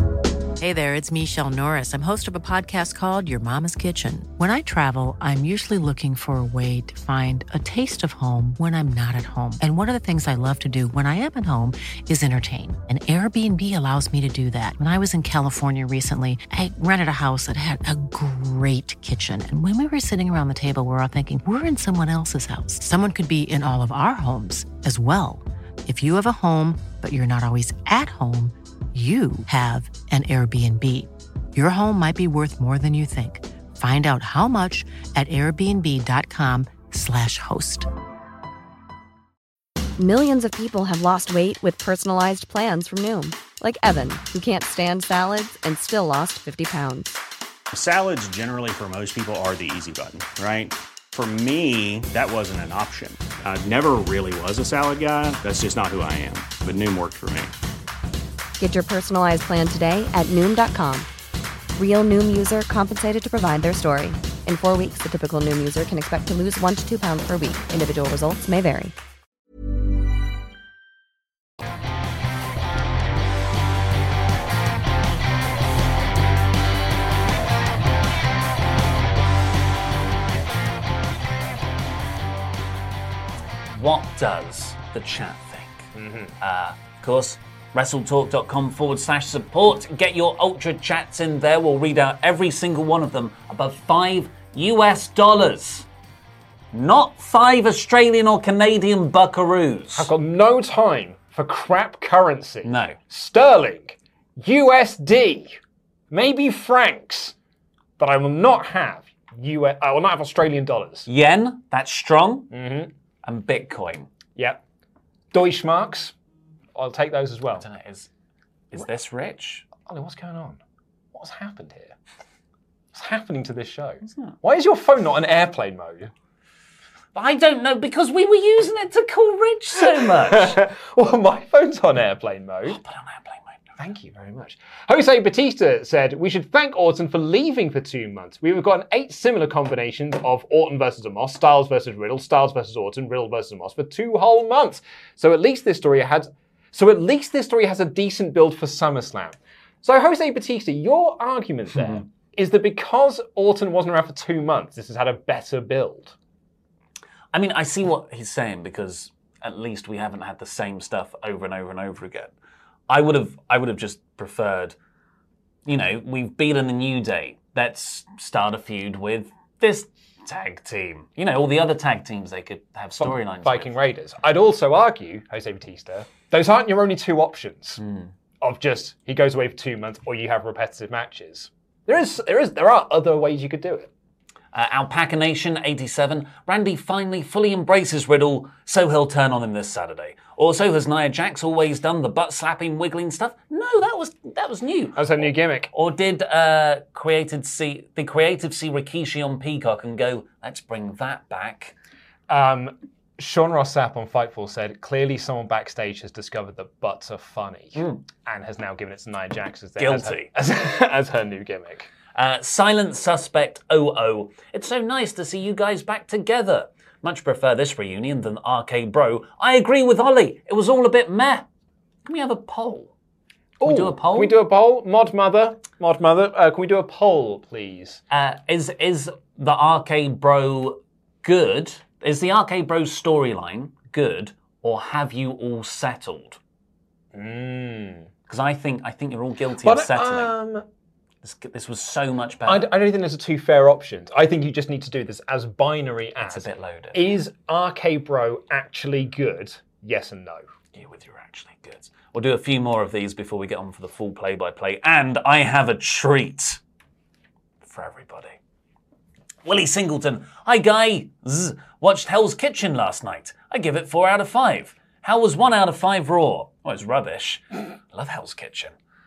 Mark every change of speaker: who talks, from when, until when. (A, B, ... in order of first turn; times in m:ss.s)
0:00.6-0:37.9 A
0:40.0-0:47.2 B
0:47.7-0:57.5 C
0:58.6-1:01.1 B
1:01.8-1:08.9 B
1:23.7-1:35.9 D
1:26.0-1:26.3 E
1:36.7-1:40.1 D
1:40.0-1:45.6 E
1:42.6-1:43.0 D
1:46.1-1:47.4 E
1:48.0-1:51.1 E
1:51.1-1:52.5 D
1:52.5-1:52.9 E
1:53.2-1:54.1 D
1:54.4-1:54.6 E
1:55.3-1:56.1 E
1:56.8-1:57.6 E
1:57.6-1:58.1 D
1:58.7-1:59.6 D
1:59.9-2:00.6 E
2:01.1-2:02.0 E
2:02.9-2:06.1 E
2:04.1-2:04.4 D
2:07.1-2:10.6 D
2:09.8-2:12.8 E
2:12.6-2:13.6 D
2:13.8-2:36.1 E
2:37.3-2:42.3 D
2:42.9-2:44.8 D
2:45.6-2:53.8 D
2:53.0-2:57.8 E
2:57.8-2:58.1 D
2:58.4-3:03.9 E
3:04.5-3:21.7 D
3:15.0-3:15.7 E
3:22.3-3:31.9 E
3:27.8-3:28.0 D
3:29.8-3:30.3 D
3:32.1-3:41.5 D
3:42.0-3:42.9 D
3:43.6-3:48.0 E
3:43.6-3:44.4 D
3:48.1-3:56.4 D
3:57.1-3:58.1 E
3:58.3-4:00.4 D
3:59.6-4:00.6 E
4:01.2-4:02.7 D
4:02.4-4:10.5 E
4:06.2-4:07.2 D
4:10.7-4:16.6 D
4:17.6-4:18.4 D
4:19.4-4:28.7 D